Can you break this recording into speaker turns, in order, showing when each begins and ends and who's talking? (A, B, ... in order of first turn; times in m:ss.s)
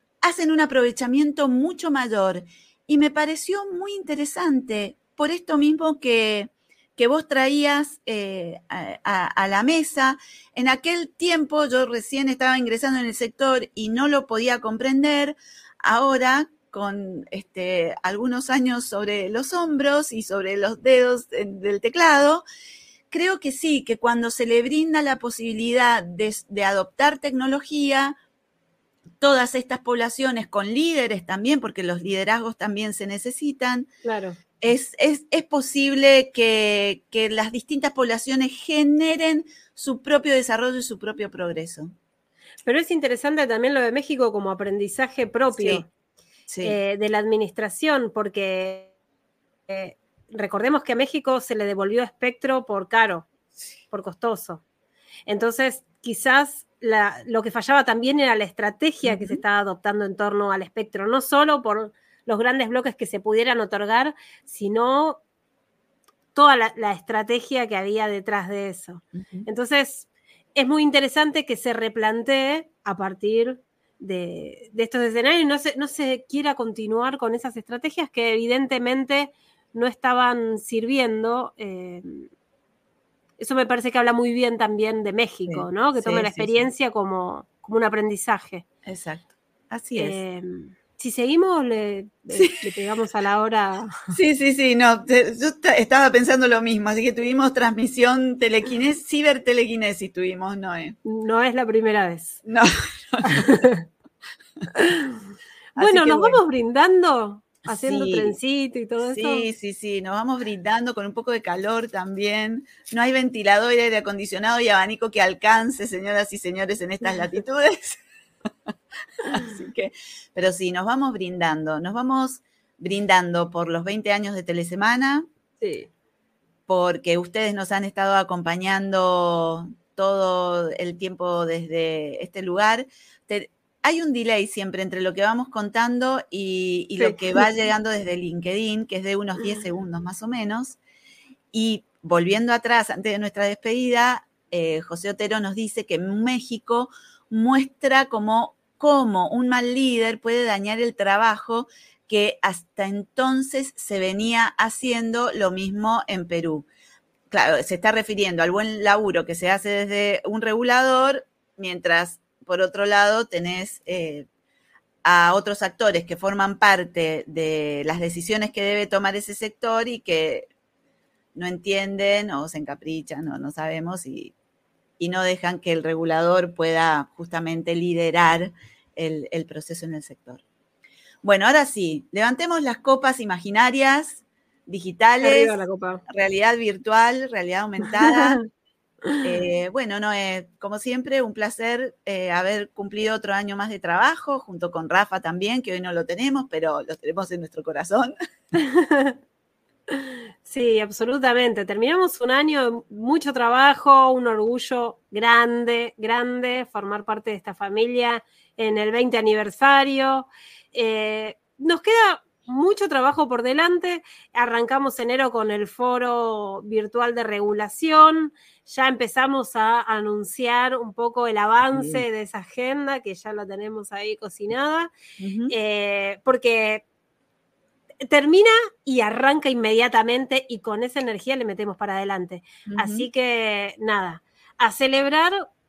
0:00.2-0:22.4 A
0:23.1-0:28.1 A
0:29.2-0:33.9 A
0:34.0-0:34.4 B
0:34.6-0:41.9 A
0:42.6-0:45.9 B
0:45.5-0:45.8 A
0:46.5-0:46.8 A
0:46.6-0:48.9 B
0:49.7-0:53.3 B
0:53.9-0:54.6 B
0:55.3-1:05.2 B
0:59.0-0:59.4 A
1:06.3-1:22.3 B
1:09.2-1:09.5 A
1:23.4-1:28.6 B
1:25.5-1:26.6 A
1:28.8-1:30.2 A
1:30.0-1:34.2 B
1:32.3-1:32.6 A
1:34.1-1:41.0 A
1:41.0-1:42.4 B
1:42.4-1:43.6 A
1:43.2-1:43.8 B
1:44.7-1:45.2 B
1:45.8-1:46.4 A
1:45.8-1:49.5 B
1:47.7-1:48.4 A
1:49.0-1:58.0 A
1:59.3-2:05.3 A
2:05.6-2:05.9 B
2:06.7-2:20.8 A
2:17.0-2:17.4 B
2:21.5-2:36.7 A
2:37.3-2:44.3 A
2:45.0-2:50.5 A
2:51.3-2:54.3 A
2:55.0-3:00.4 A
3:01.2-3:08.4 A
3:05.2-3:06.0 B
3:08.0-3:08.4 B
3:09.2-3:18.1 A
3:18.6-3:19.2 B
3:19.9-3:44.9 B
3:41.7-3:42.0 A
3:45.2-3:45.5 A
3:45.5-3:46.8 B
3:48.0-3:55.4 B
3:52.7-3:53.1 A